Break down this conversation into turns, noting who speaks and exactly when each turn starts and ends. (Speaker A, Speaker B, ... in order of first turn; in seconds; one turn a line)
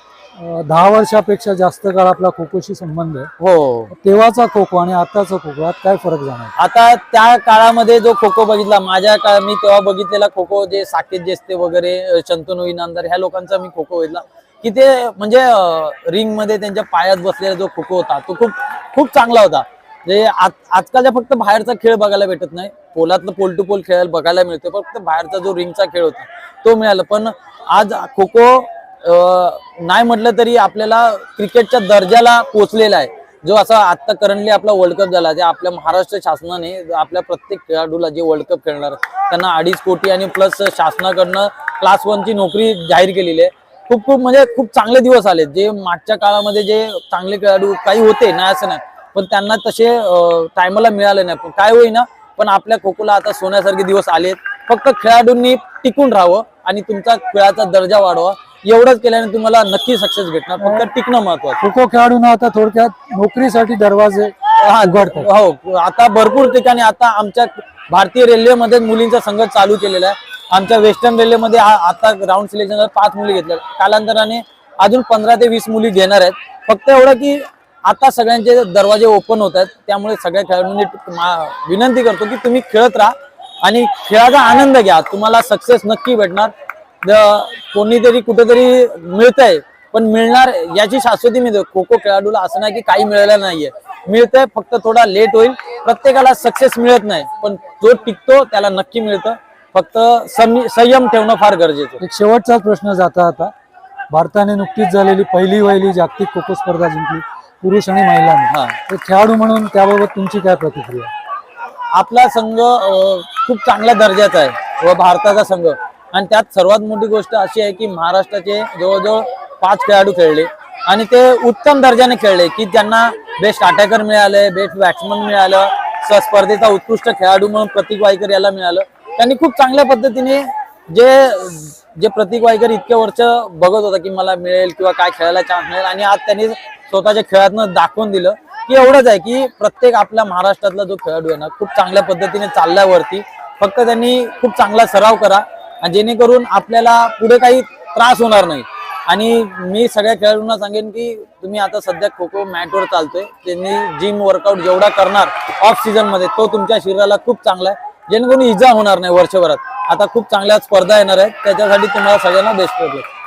Speaker A: 0.4-3.3
Speaker B: 3.4-3.9
Speaker A: 3.9-6.5
Speaker B: 6.6-61.6
Speaker A: 60.6-60.9
Speaker A: 61.6-65.3
Speaker B: 64.6-86.5
Speaker B: 87.0-102.0
Speaker A: 102.0-103.5
Speaker A: 104.1-111.1
Speaker B: 108.5-108.8
Speaker B: 111.9-163.1